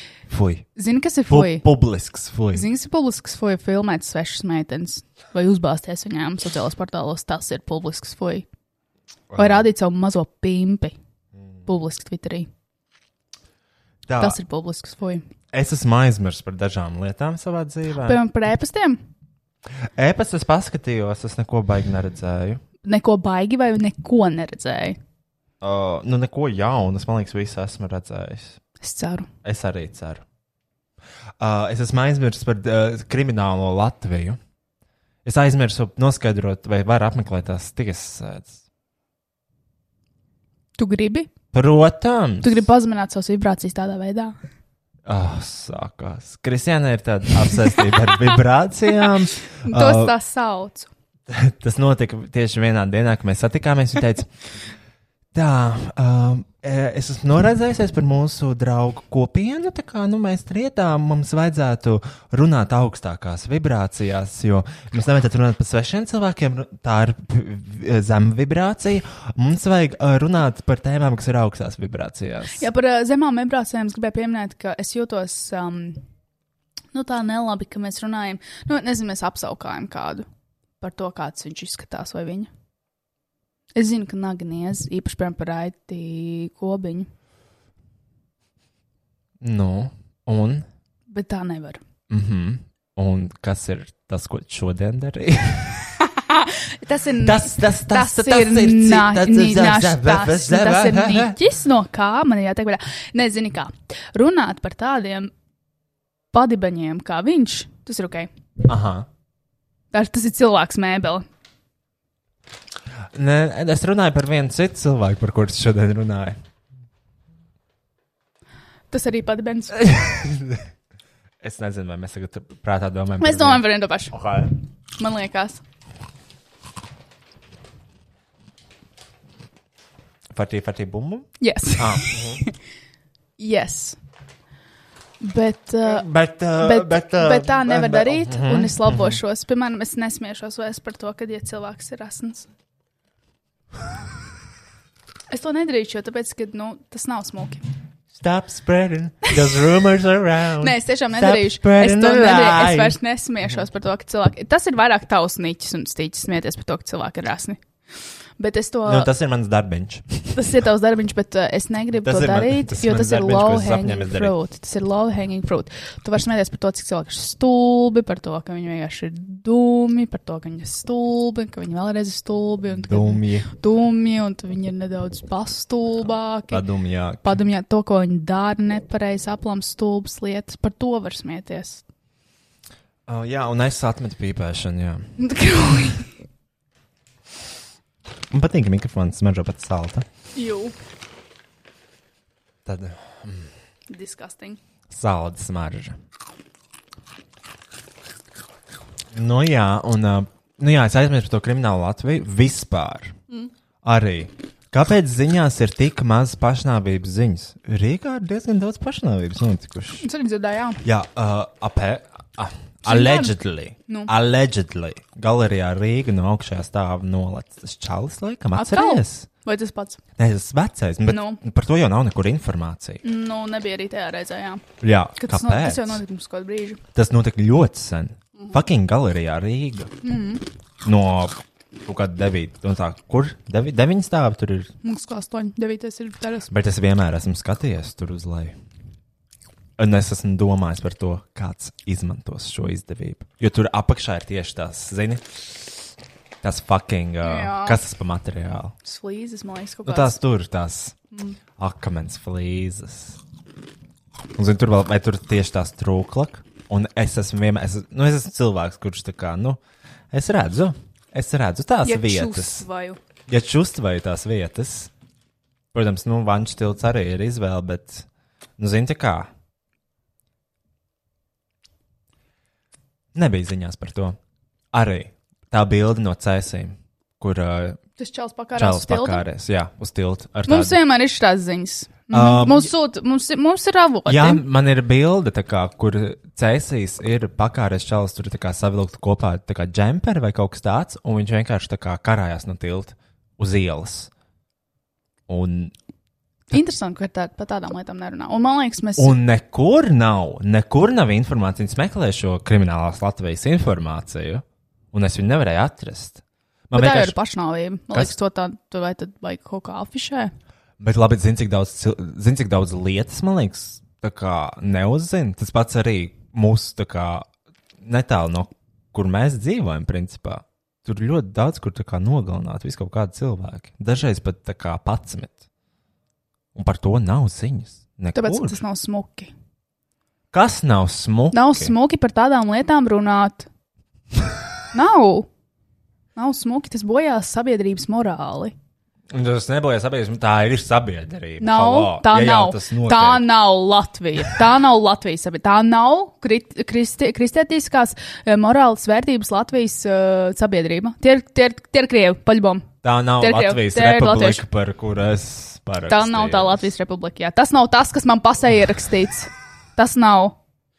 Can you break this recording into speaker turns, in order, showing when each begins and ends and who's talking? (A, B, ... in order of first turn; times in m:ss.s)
0:00.3-0:00.7 A
0:00.8-0:01.6 B
0:01.3-0:02.7 A
0:02.5-0:08.4 B
0:09.3-0:09.7 A
0:09.4-0:11.0 B
0:11.6-0:12.5 B
0:14.0-0:14.4 A
0:14.2-0:15.2 B
0:15.5-0:18.2 A
0:18.0-0:19.0 B
0:19.9-0:22.6 A
0:22.8-0:25.0 B
0:25.6-0:28.6 A
0:28.8-0:29.3 B
0:29.4-0:30.2 A
0:31.4-0:34.4 A
0:35.2-0:38.6 A
0:40.8-0:41.3 B
0:41.5-0:42.6 A
0:42.4-0:44.3 B
0:45.0-0:50.1 A
0:49.6-0:50.9 B
0:51.3-0:54.3 A
0:55.3-1:12.6 A
1:12.5-1:16.0 B
1:16.9-1:20.2 B
1:20.8-1:22.5 B
1:23.7-1:27.1 B
1:29.4-1:30.7 A
1:31.1-1:31.8 B
1:32.1-1:35.9 A
1:36.1-1:45.3 B
1:37.2-1:41.4 A
1:46.3-1:48.3 B
1:48.7-1:49.1 A
1:49.9-1:51.2 B
1:53.1-1:56.4 A
1:58.9-2:00.0 B
1:59.8-2:00.6 A
2:01.4-2:04.5 A
2:03.2-2:04.2 B
2:05.0-2:05.6 B
2:10.3-2:12.4 A
2:11.4-2:12.5 B
2:13.4-2:14.0 B
2:15.2-2:22.5 B
2:15.8-2:19.2 A
2:25.3-2:27.6 B
2:28.1-2:33.0 A
2:30.6-2:37.6 B
2:38.4-2:39.1 B
2:38.8-2:40.3 A
2:40.3-2:56.6 B
2:42.0-2:44.3 A
2:52.7-2:53.5 A
2:56.5-2:57.4 A
2:57.2-3:01.8 B
3:03.1-3:05.1 A
3:05.2-3:06.1 B
3:08.3-3:10.1 A
3:10.3-3:10.7 B
3:12.6-3:13.5 A
3:13.9-3:14.6 B
3:14.9-3:16.0 A
3:19.1-3:23.2 A
3:23.8-3:30.0 A
3:30.0-3:30.8 B
3:30.8-3:39.3 A
3:32.8-3:33.3 B
3:38.5-3:40.0 B
3:40.2-3:43.0 A
3:41.1-3:41.4 B
3:43.0-3:44.6 B
3:44.8-3:46.0 A
3:45.2-3:46.8 B
3:46.9-3:49.9 A
3:50.0-3:50.4 B
3:50.8-3:54.7 A
3:54.8-3:56.5 B
3:56.5-3:58.6 A
3:59.8-4:05.7 A
4:06.4-4:08.7 A
4:07.2-4:07.8 B
4:08.8-4:10.2 B
4:09.8-4:11.0 A
4:11.6-4:13.2 A
4:14.4-4:22.6 A
4:21.8-4:23.0 B
4:23.3-4:24.9 A
4:25.7-4:28.1 A
4:28.6-4:29.3 A
4:33.1-4:34.2 A
4:34.7-4:37.8 A
4:38.0-4:39.2 B
4:38.6-4:40.8 A
4:40.5-4:44.4 B
4:42.1-4:42.7 A
4:44.1-4:54.1 A
4:55.3-4:55.7 A
4:56.5-4:59.2 B
4:59.0-5:07.1 A
5:06.7-5:10.3 B
5:10.8-5:17.3 A
5:17.8-5:25.4 A
5:26.5-5:28.6 A
5:28.1-5:29.3 B
5:30.3-5:31.7 A
5:31.3-5:33.5 B
5:34.7-5:35.3 B
5:36.2-5:38.5 B
5:39.1-5:43.3 A
5:41.4-5:54.4 B
5:52.8-5:56.7 A
5:55.9-6:00.4 B